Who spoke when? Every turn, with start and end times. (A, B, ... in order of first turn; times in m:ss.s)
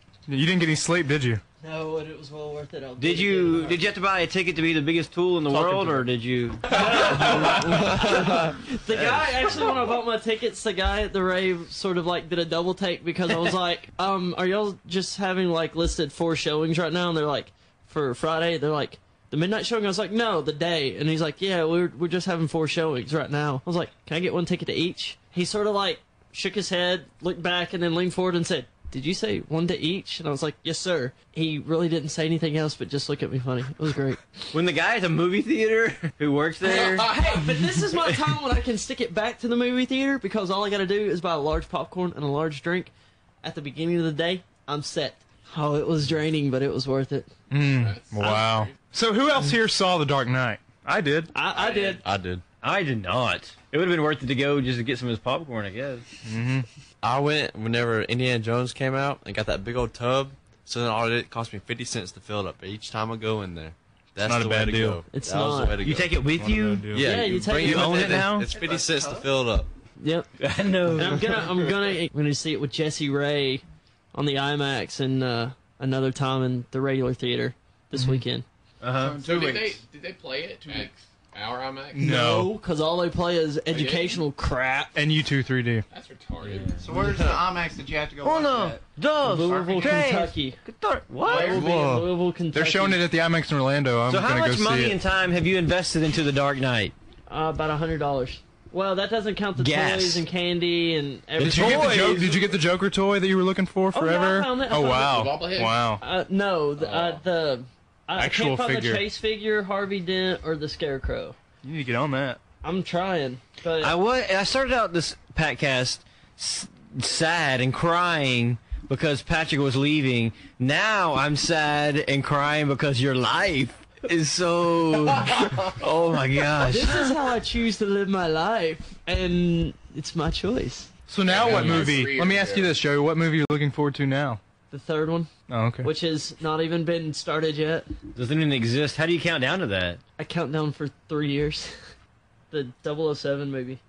0:00.3-0:01.4 A
0:01.6-0:03.8 B
0:03.0-0:07.5 C
0:06.7-0:34.2 B
0:34.5-0:37.1 C
0:36.6-0:42.9 B
0:37.9-0:38.2 C
0:43.4-0:47.3 B
0:47.5-0:51.3 A
0:47.7-0:48.7 D
0:51.3-0:52.0 B
0:51.7-0:52.4 E
0:52.6-0:56.1 C
0:56.2-0:56.7 A
0:57.0-1:06.3 E
1:04.2-1:05.0 A
1:05.1-1:05.8 B
1:05.8-1:07.0 C
1:06.2-1:07.2 A
1:06.9-1:09.7 E
1:07.0-1:08.3 B
1:07.5-1:08.5 C
1:08.5-1:09.2 F
1:10.0-1:10.3 B
1:10.4-1:11.6 C
1:10.9-1:13.6 B
1:14.1-1:18.4 B
1:17.9-1:18.2 A
1:18.8-1:19.2 C
1:18.9-1:19.8 F
1:19.2-1:22.0 D
1:21.9-1:22.5 A
1:22.0-1:25.0 B
1:23.7-1:24.2 D
1:25.0-1:25.8 A
1:25.9-1:26.8 D
1:26.4-1:27.1 C
1:26.8-1:28.8 F
1:28.2-1:31.6 C
1:29.2-1:30.6 B
1:29.5-1:29.9 F
1:31.2-1:33.0 B
1:31.3-1:31.6 F
1:31.4-1:32.0 E
1:32.5-1:35.0 A
1:34.1-1:36.9 C
1:37.3-1:42.3 B
1:39.6-1:40.2 C
1:41.4-1:42.4 C
1:41.4-1:46.0 A
1:43.9-1:45.3 B
1:44.8-1:45.8 D
1:46.0-1:51.4 B
1:46.8-1:47.2 D
1:48.2-1:49.0 A
1:51.6-1:52.4 A
1:52.6-1:54.0 B
1:53.8-2:07.1 C
2:06.6-2:10.9 B
2:11.1-2:14.4 A
2:11.2-2:12.7 D
2:11.5-2:12.0 C
2:14.7-2:15.3 B
2:15.5-2:15.9 A
2:15.8-2:17.9 B
2:18.1-2:20.0 C
2:20.2-2:21.8 B
2:22.5-2:23.8 B